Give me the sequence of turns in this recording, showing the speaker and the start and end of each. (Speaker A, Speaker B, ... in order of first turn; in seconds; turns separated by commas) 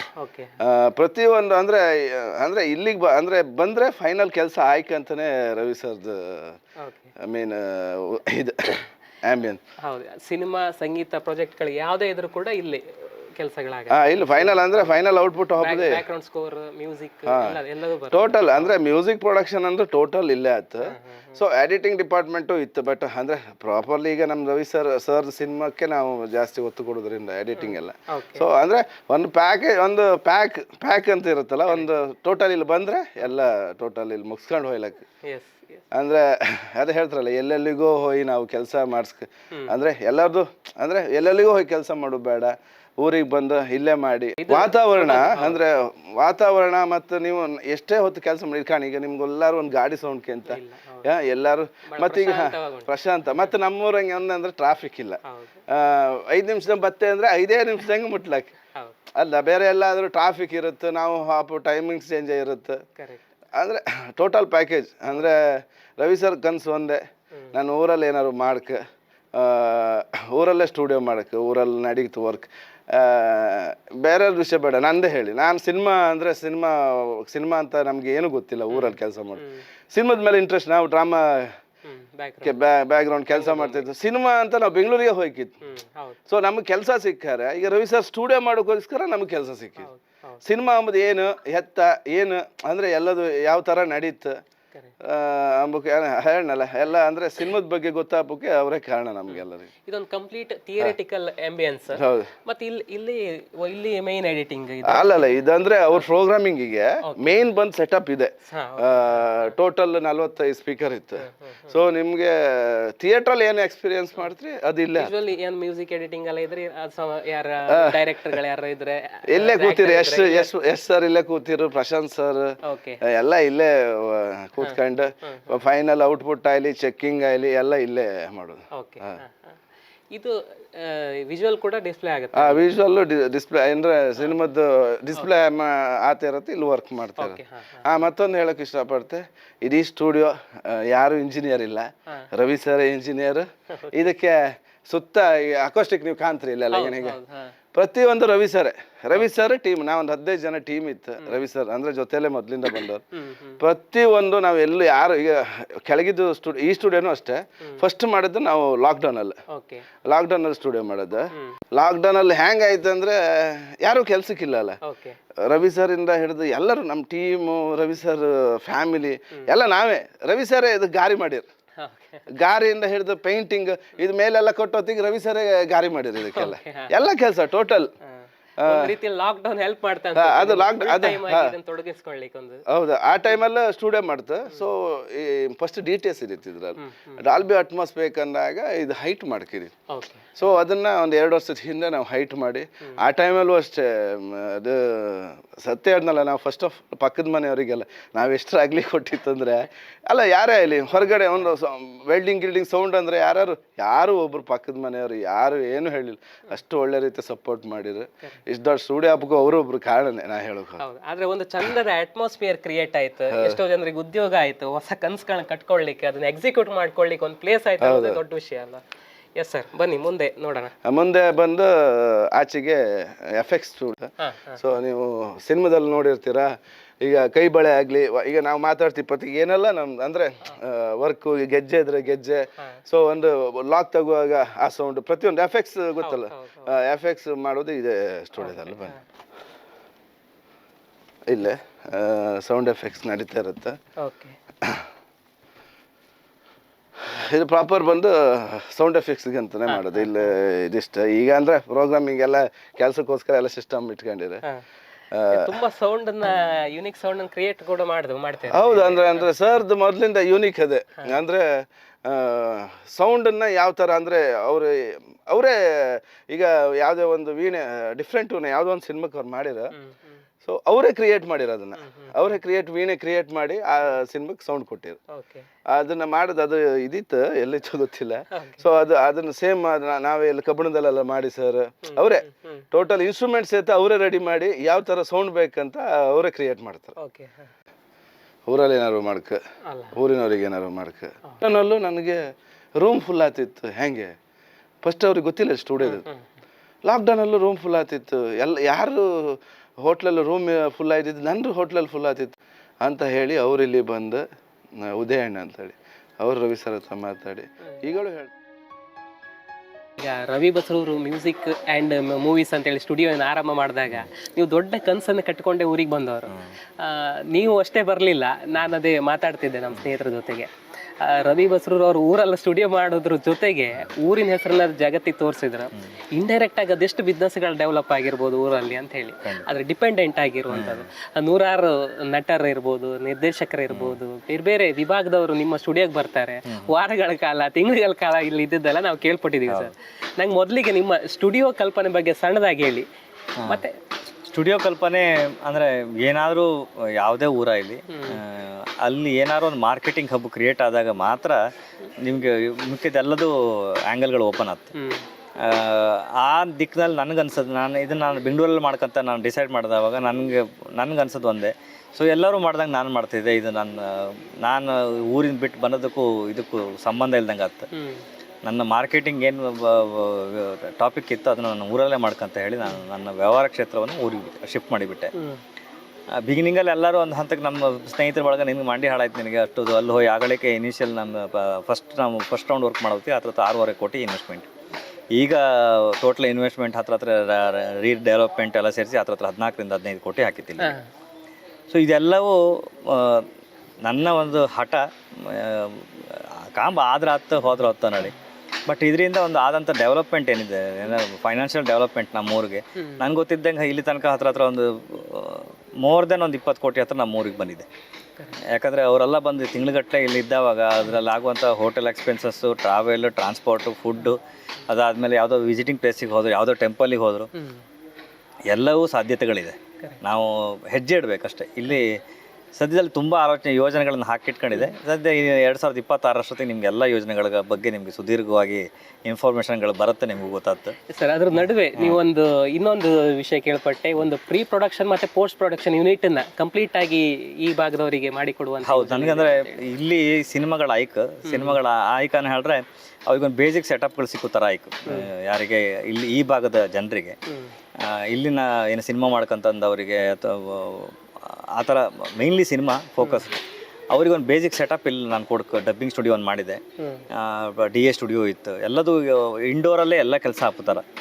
Speaker A: 0.2-0.6, Speaker B: 0.6-6.6, Speaker A: 6.8-7.1, Speaker B: 7.2-9.6, Speaker A: 9.8-14.9, Speaker B: 13.9-16.0, Speaker A: 15.6-18.7, Speaker B: 17.2-17.6, Speaker B: 18.1-35.0, Speaker A: 20.9-21.4, Speaker A: 27.6-28.5, Speaker A: 35.2-35.8, Speaker B: 35.9-58.5, Speaker A: 44.4-45.6, Speaker A: 50.5-51.1, Speaker A: 51.9-52.9, Speaker A: 55.2-55.6, Speaker B: 59.1-62.8, Speaker A: 63.0-63.2, Speaker B: 63.5-67.0, Speaker B: 67.5-68.8, Speaker B: 69.3-81.5, Speaker A: 78.7-79.6, Speaker A: 81.8-82.5, Speaker B: 82.4-85.5, Speaker A: 83.3-83.8, Speaker A: 85.6-86.2, Speaker B: 86.3-89.9, Speaker A: 89.8-90.4, Speaker B: 90.4-94.4, Speaker B: 95.0-99.7, Speaker A: 99.8-105.2, Speaker B: 101.9-102.3, Speaker B: 104.8-115.1, Speaker A: 107.0-107.4, Speaker A: 108.5-109.5, Speaker A: 111.2-111.8, Speaker A: 114.9-120.5, Speaker B: 117.7-118.4, Speaker B: 119.3-129.2, Speaker A: 122.6-123.0, Speaker A: 124.6-125.5, Speaker A: 128.7-129.6, Speaker A: 130.1-132.7, Speaker B: 132.3-147.2, Speaker A: 137.2-137.9, Speaker A: 143.7-144.0, Speaker A: 146.7-147.5, Speaker B: 147.7-153.0, Speaker A: 153.1-153.6, Speaker B: 153.6-159.4, Speaker A: 159.5-159.9, Speaker B: 160.0-164.8, Speaker A: 161.3-161.6, Speaker A: 164.8-165.2, Speaker B: 165.4-171.4, Speaker A: 171.8-172.2, Speaker B: 172.3-177.9, Speaker A: 176.2-177.0, Speaker A: 178.1-182.6, Speaker B: 178.6-178.9, Speaker B: 180.1-181.5, Speaker B: 182.7-189.7, Speaker A: 186.8-187.4, Speaker A: 189.9-190.4, Speaker B: 190.4-210.8, Speaker A: 210.8-218.8, Speaker B: 213.3-213.6, Speaker B: 217.8-218.2, Speaker A: 219.4-220.7, Speaker B: 220.8-238.9, Speaker A: 224.2-224.6, Speaker A: 236.0-236.7, Speaker A: 238.4-239.0, Speaker B: 241.3-243.8, Speaker A: 244.0-244.3, Speaker B: 247.0-254.4, Speaker A: 249.7-250.1, Speaker B: 255.1-255.5, Speaker A: 255.3-259.3, Speaker B: 258.5-269.7, Speaker A: 269.7-270.2, Speaker B: 270.4-275.0, Speaker A: 271.8-272.3, Speaker A: 275.1-275.5, Speaker B: 275.7-286.9, Speaker A: 278.3-278.6, Speaker A: 281.8-282.6, Speaker A: 287.0-287.5, Speaker B: 288.5-289.4, Speaker A: 289.7-289.9, Speaker B: 289.9-292.2, Speaker B: 292.8-294.1, Speaker B: 294.8-296.0, Speaker A: 295.8-296.2, Speaker B: 296.8-304.2, Speaker B: 304.8-308.3, Speaker A: 310.0-342.9, Speaker C: 330.5-330.8, Speaker C: 333.7-334.0, Speaker C: 344.2-351.4, Speaker A: 347.9-348.2, Speaker C: 352.0-354.7, Speaker A: 354.7-355.0, Speaker C: 355.4-367.7, Speaker A: 367.7-368.0, Speaker C: 368.4-375.1, Speaker A: 375.1-375.4, Speaker C: 376.2-384.5, Speaker C: 385.1-390.8, Speaker A: 390.6-390.8, Speaker C: 391.7-393.3, Speaker C: 393.8-398.1, Speaker C: 398.7-407.7, Speaker A: 402.8-403.0, Speaker C: 408.5-414.2, Speaker C: 414.7-417.3, Speaker A: 417.3-417.6, Speaker C: 418.5-422.0, Speaker C: 422.6-430.8, Speaker A: 430.9-439.7, Speaker C: 431.4-432.0, Speaker C: 438.6-447.1, Speaker A: 441.2-441.6, Speaker C: 447.8-453.4, Speaker A: 453.0-453.3, Speaker C: 453.9-456.6, Speaker A: 456.8-457.1, Speaker C: 457.1-460.8